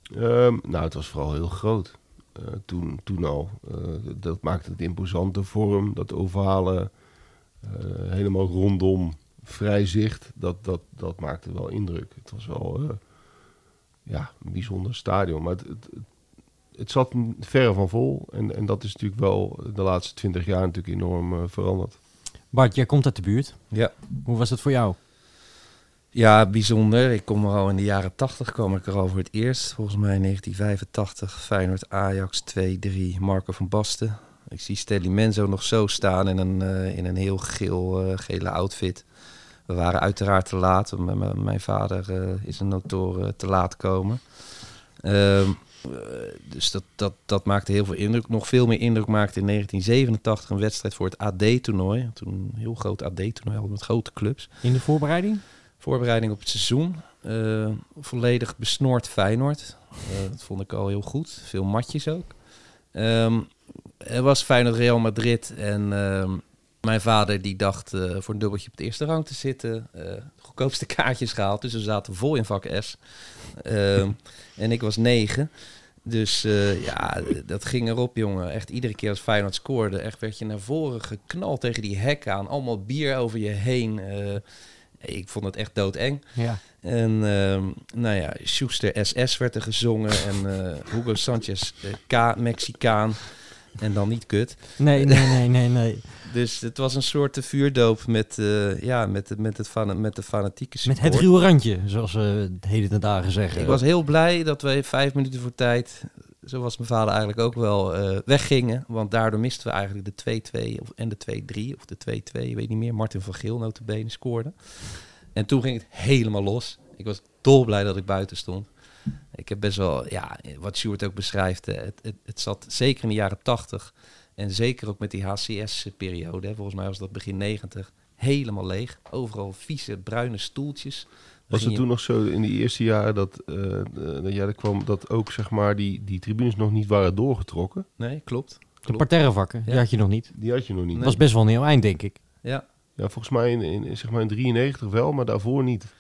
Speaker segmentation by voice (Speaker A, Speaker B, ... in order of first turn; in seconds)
Speaker A: 0.1-7.0, 7.6-13.0, 14.1-16.2, 16.7-22.0, 131.5-137.9, 140.3-141.2, 143.0-145.9
Speaker B: 22.5-25.0, 54.6-55.4, 86.3-86.6, 94.8-96.0, 100.8-103.8, 138.8-142.2
Speaker C: 26.1-54.6, 55.8-95.4, 96.2-101.3, 103.5-131.8, 138.0-139.9, 140.9-141.2